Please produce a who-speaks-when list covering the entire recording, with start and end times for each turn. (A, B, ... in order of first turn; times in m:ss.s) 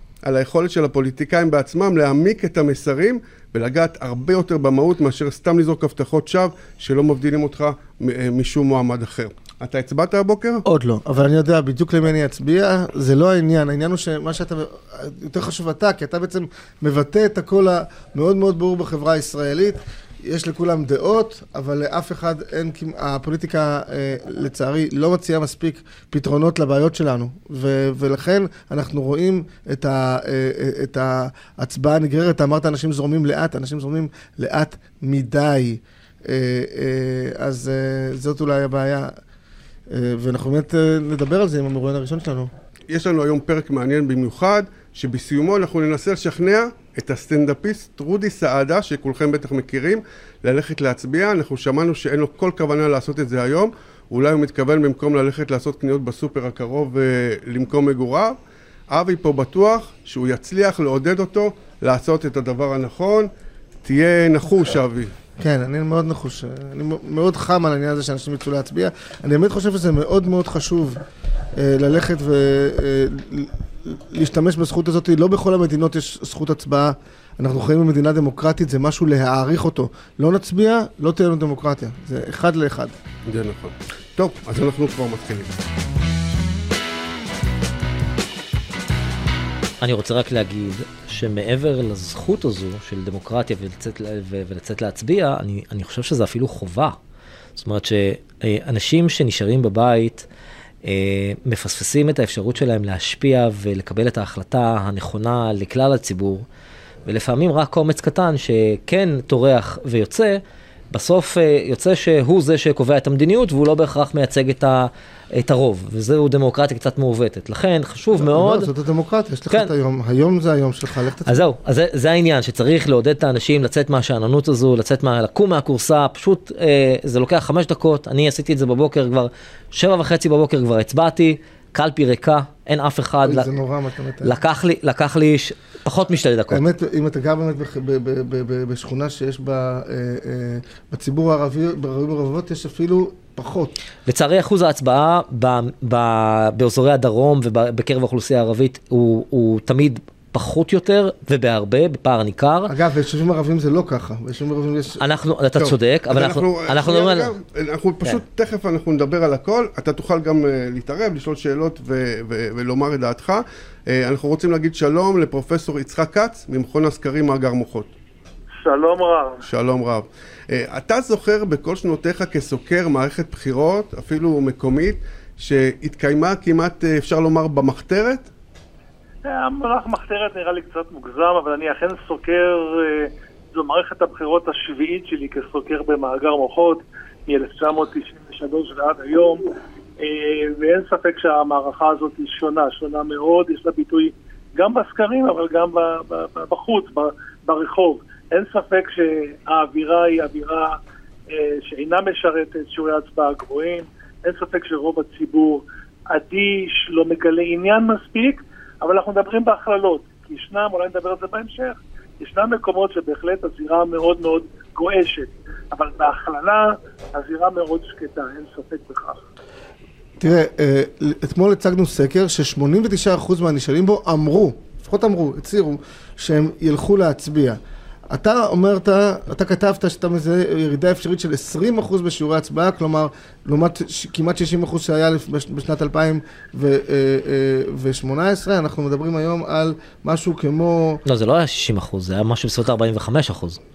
0:00.2-0:10.6 A
0:10.6-0:39.1 B
0:39.9-0:42.5 B
0:42.9-0:58.4 A
0:58.9-1:03.3 A
1:03.8-1:05.1 A
1:05.4-1:11.0 B
1:11.6-1:23.0 B
1:23.3-1:25.6 A
1:29.8-1:37.0 C
1:37.6-1:40.3 C
1:40.8-1:46.4 C
1:47.1-1:58.7 C
1:58.1-2:01.4 B
2:01.2-2:13.5 C
2:13.2-2:14.3 B
2:14.2-2:16.6 C
2:16.5-2:23.8 B
2:24.1-2:32.7 C
2:32.7-2:35.0 B
2:35.0-2:37.3 C
2:35.6-2:47.9 A
2:48.6-2:49.4 D
2:49.4-2:58.3 A
2:59.2-3:09.4 D
3:10.0-3:20.8 D
3:21.3-3:39.2 D
3:40.2-4:01.0 B
4:01.1-4:03.6 C